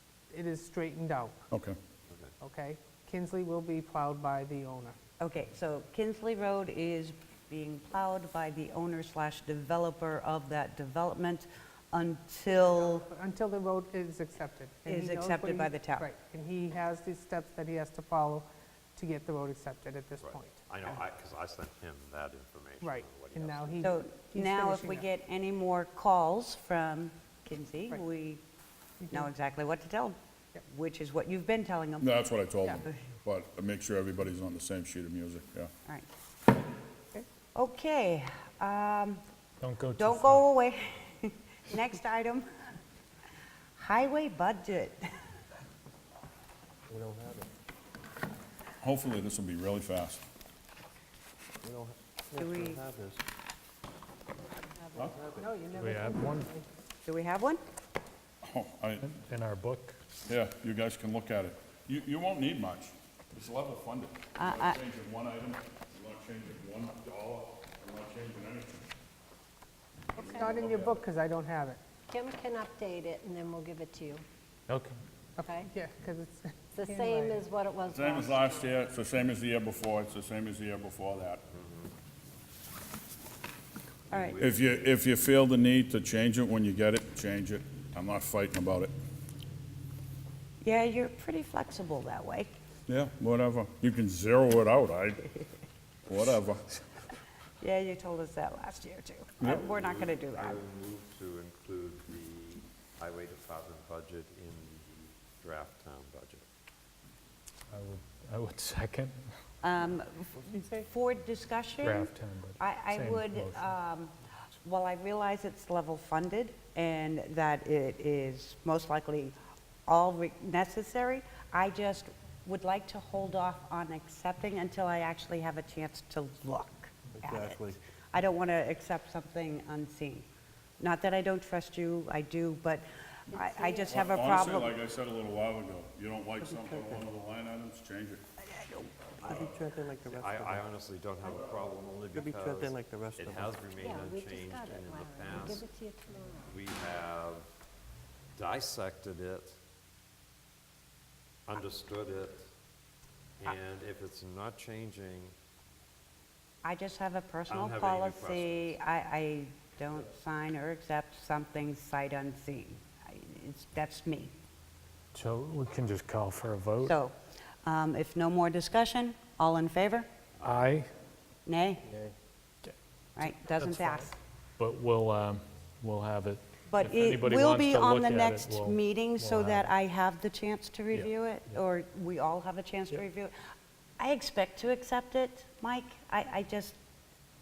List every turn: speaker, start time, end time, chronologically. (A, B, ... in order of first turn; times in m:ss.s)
0:00.3-0:01.5 A
0:01.5-0:01.8 B
0:02.1-0:02.3 C
0:02.4-0:05.0 A
0:05.2-0:13.1 D
0:12.5-0:20.7 A
0:14.8-0:16.1 D
0:20.2-0:23.9 C
0:22.8-0:25.1 A
0:23.8-0:28.4 D
0:29.0-0:29.3 A
0:29.1-0:32.2 D
0:32.0-0:35.7 B
0:37.6-0:39.2 D
0:39.6-0:40.4 E
0:40.0-0:42.4 D
0:43.8-0:45.0 D
0:46.9-0:47.5 F
0:48.8-0:50.2 B
0:51.6-0:53.2 F
0:52.3-0:52.8 D
0:55.0-0:55.9 F
0:55.4-0:56.7 A
0:55.8-0:56.5 E
0:57.0-0:57.6 D
0:58.4-0:59.1 B
0:59.0-1:00.0 E
1:00.3-1:08.8 B
1:04.4-1:04.8 D
1:10.2-1:10.9 G
1:10.2-1:11.0 B
1:10.2-1:11.8 A
1:12.1-1:14.2 G
1:14.7-1:15.0 E
1:15.4-1:17.4 A
1:15.4-1:15.7 G
1:16.7-1:18.5 G
1:17.9-1:21.4 B
1:21.6-1:21.9 C
1:24.1-1:24.4 D
1:24.4-1:28.9 B
1:30.6-1:32.6 D
1:32.9-1:35.2 B
1:36.0-1:36.7 B
1:37.6-1:40.6 D
1:39.4-1:39.6 B
1:39.5-1:46.4 C
1:47.7-1:49.3 E
1:49.6-1:59.3 D
1:50.3-1:50.9 F
1:51.8-1:53.7 E
1:59.9-2:07.6 D
2:07.1-2:07.8 F
2:08.1-2:10.3 D
2:10.8-2:14.8 D
2:13.3-2:13.9 G
2:13.8-2:18.2 B
2:16.4-2:17.1 F
2:18.5-2:18.9 D
2:19.2-2:19.5 C
2:19.2-2:20.7 F
2:20.0-2:25.7 C
2:22.1-2:23.7 F
2:23.8-2:26.6 G
2:26.4-2:27.5 C
2:28.4-2:29.6 C
2:31.5-2:32.5 C
2:33.4-2:35.3 C
2:36.6-2:44.3 D
2:37.5-2:38.8 C
2:45.1-2:47.0 E
2:46.8-2:50.1 D
2:50.4-2:50.9 E
2:51.4-2:51.8 D
2:52.6-2:59.7 E
2:53.2-2:54.1 D
2:56.7-3:03.3 D
3:00.9-3:01.6 E
3:04.0-3:06.8 D